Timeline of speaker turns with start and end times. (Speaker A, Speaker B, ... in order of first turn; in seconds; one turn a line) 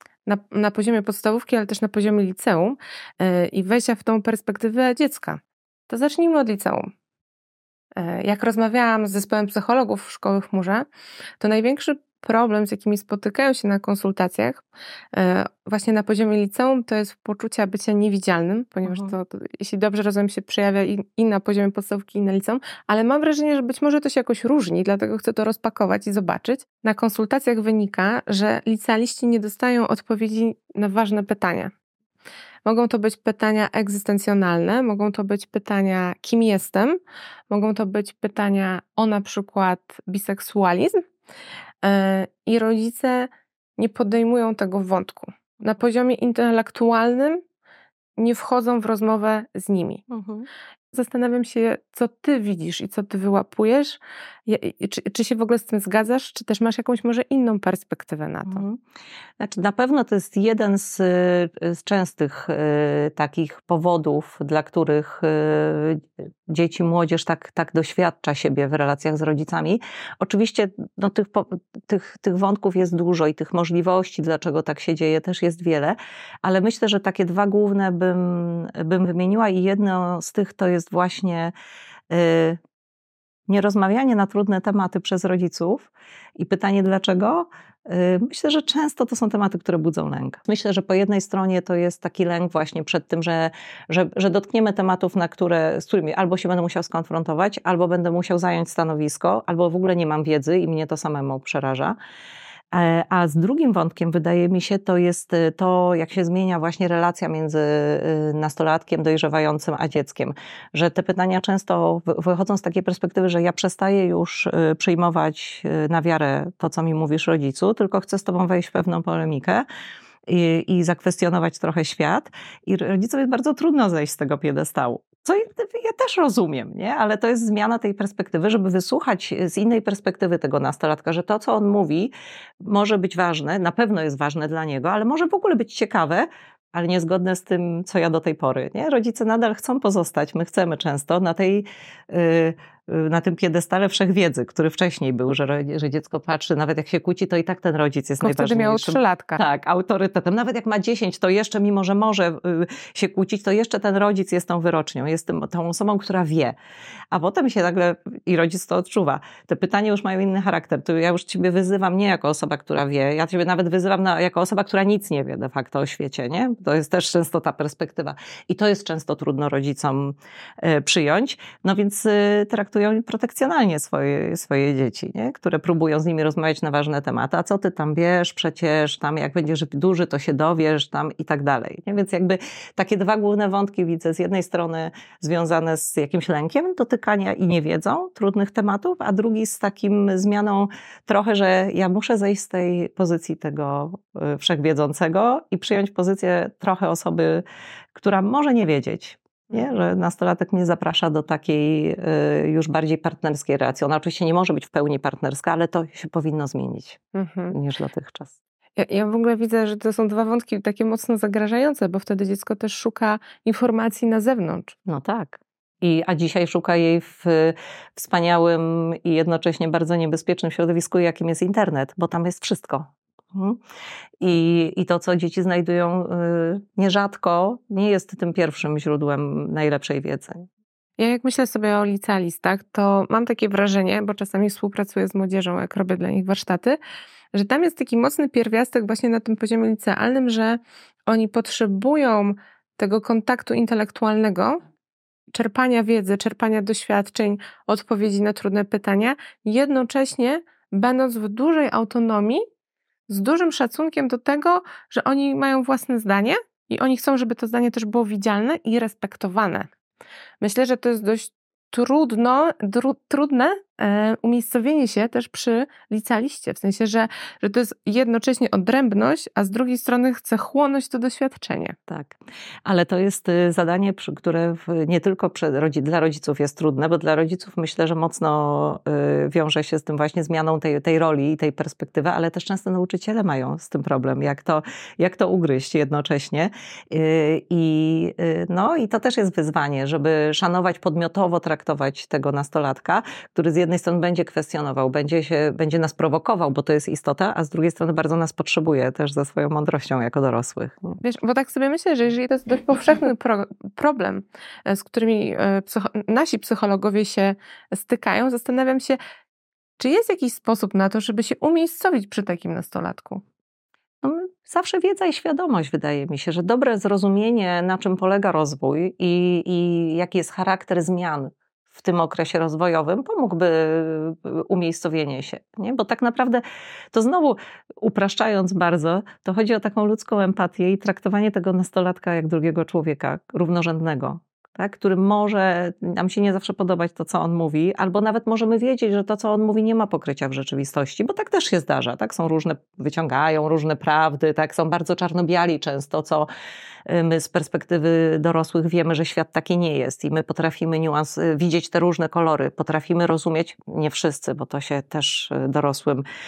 Speaker A: 0.3-6.9
Speaker A: 8.0-10.9
Speaker A: 11.4-31.7
Speaker B: 18.9-19.1
Speaker A: 32.6-37.0
Speaker A: 37.5-41.0
Speaker A: 41.8-47.4
Speaker A: 48.2-50.0
Speaker B: 50.1-50.5
Speaker A: 50.9-58.6
Speaker B: 58.5-58.8
Speaker B: 59.4-81.5
Speaker B: 82.1-82.6
Speaker B: 83.5-102.0
Speaker B: 102.7-119.7
Speaker B: 120.3-132.1
Speaker B: 132.6-156.6
Speaker A: 148.2-149.4
Speaker B: 157.1-197.4
Speaker B: 197.9-207.0
Speaker A: 207.1-207.6
Speaker B: 207.5-208.4
Speaker A: 208.8-214.8
Speaker B: 214.9-223.6
Speaker B: 224.2-230.5
Speaker A: 231.0-236.8
Speaker A: 237.3-244.6
Speaker A: 245.3-252.4
Speaker A: 253.1-259.7
Speaker A: 260.4-271.8
Speaker B: 271.9-301.0
Speaker A: 301.0-309.0
Speaker A: 309.8-313.2
Speaker B: 314.0-346.3
Speaker B: 346.9-356.0